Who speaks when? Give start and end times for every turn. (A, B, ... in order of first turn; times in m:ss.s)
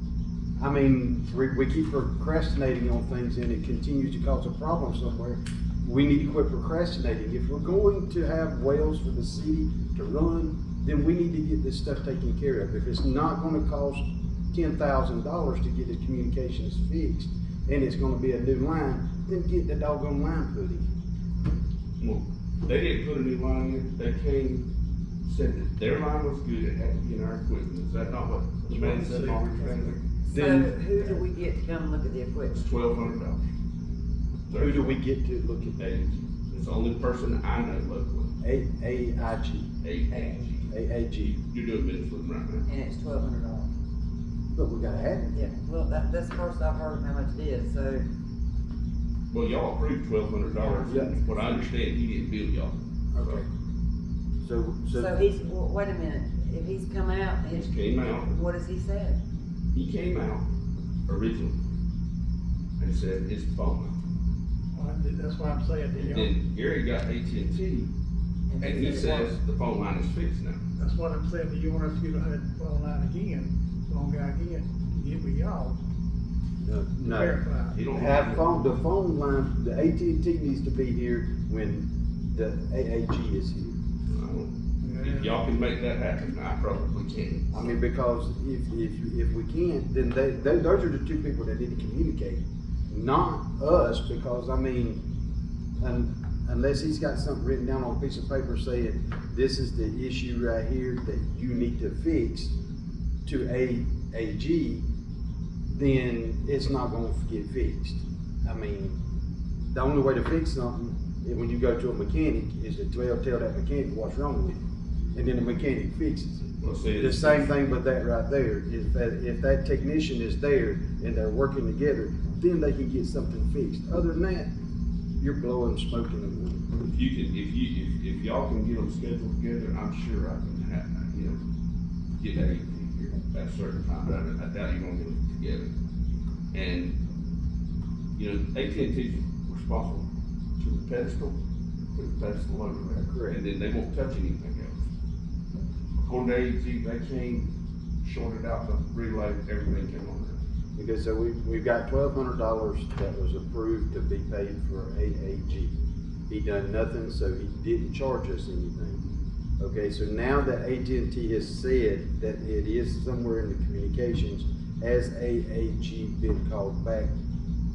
0:00.6-0:20.8 A
0:22.0-0:24.6 B
0:25.2-0:30.0 B
0:30.3-0:32.6 C
0:30.3-0:31.2 A
0:32.5-0:33.4 B
0:34.5-0:35.0 B
0:34.5-0:35.8 A
0:35.8-0:38.3 B
0:38.4-0:39.7 A
0:39.8-0:40.7 B
0:40.1-0:40.5 C
0:40.7-0:41.4 A
0:41.2-0:42.6 B
0:42.6-0:43.7 C
0:44.5-0:45.4 A
0:45.3-0:48.0 C
0:49.3-0:53.4 B
0:50.8-0:51.2 A
0:53.1-0:53.4 A
0:54.4-0:55.2 A
0:54.9-0:59.2 C
0:57.5-0:58.3 B
0:59.7-1:00.4 B
1:01.1-1:01.6 B
1:02.8-1:03.9 B
1:04.7-1:06.3 D
1:06.0-1:07.9 B
1:08.5-1:09.4 C
1:08.6-1:10.6 B
1:10.8-1:15.8 D
1:16.6-1:23.8 A
1:17.0-1:17.8 D
1:17.7-1:18.5 B
1:24.1-1:27.7 B
1:24.8-1:25.4 D
1:27.5-1:35.0 A
1:35.8-1:42.5 A
1:43.2-1:44.8 A
1:45.7-1:49.0 A
1:49.7-1:54.6 A
1:55.1-2:04.5 A
1:56.6-1:57.5 B
2:05.2-2:06.6 A
2:06.9-2:11.4 B
2:12.2-2:15.7 B
2:16.5-2:16.9 B
2:18.2-2:20.0 B
2:20.6-2:21.4 B
2:21.9-2:24.8 B
2:23.0-2:23.4 A
2:26.0-2:27.5 B
2:28.0-2:30.4 B
2:30.8-2:35.7 A
2:36.3-2:39.1 A
2:39.6-2:47.1 A